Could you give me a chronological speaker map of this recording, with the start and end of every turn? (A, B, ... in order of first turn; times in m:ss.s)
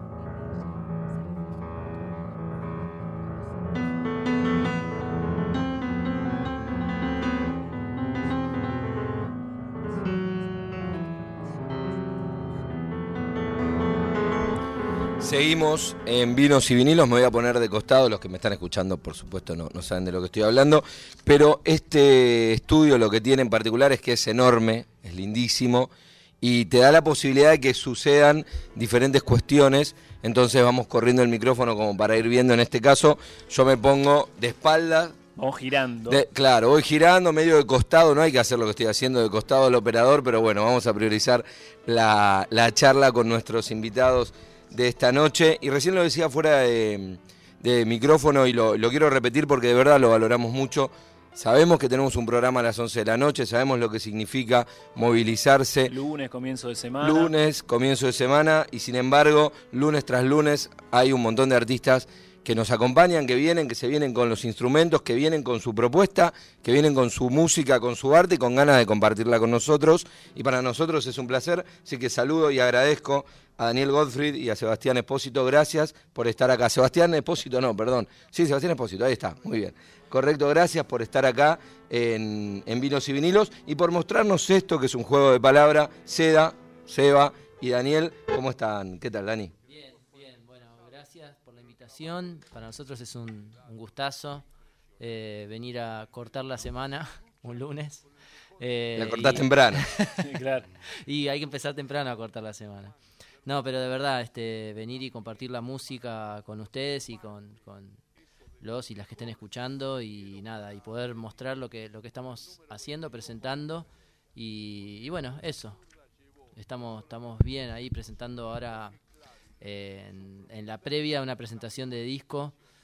0:15.2-0:35.2 A
0:35.4-0:36.2 B
0:36.1-0:55.9 A
0:55.9-0:57.3 B
0:57.0-1:29.5 A
1:29.6-1:34.5 C
1:35.0-1:38.0 C
1:38.6-1:48.0 C
1:39.0-1:39.9 A
1:40.2-1:40.7 B
1:48.6-1:55.8 C
1:56.6-1:59.0 C
1:59.6-2:02.6 C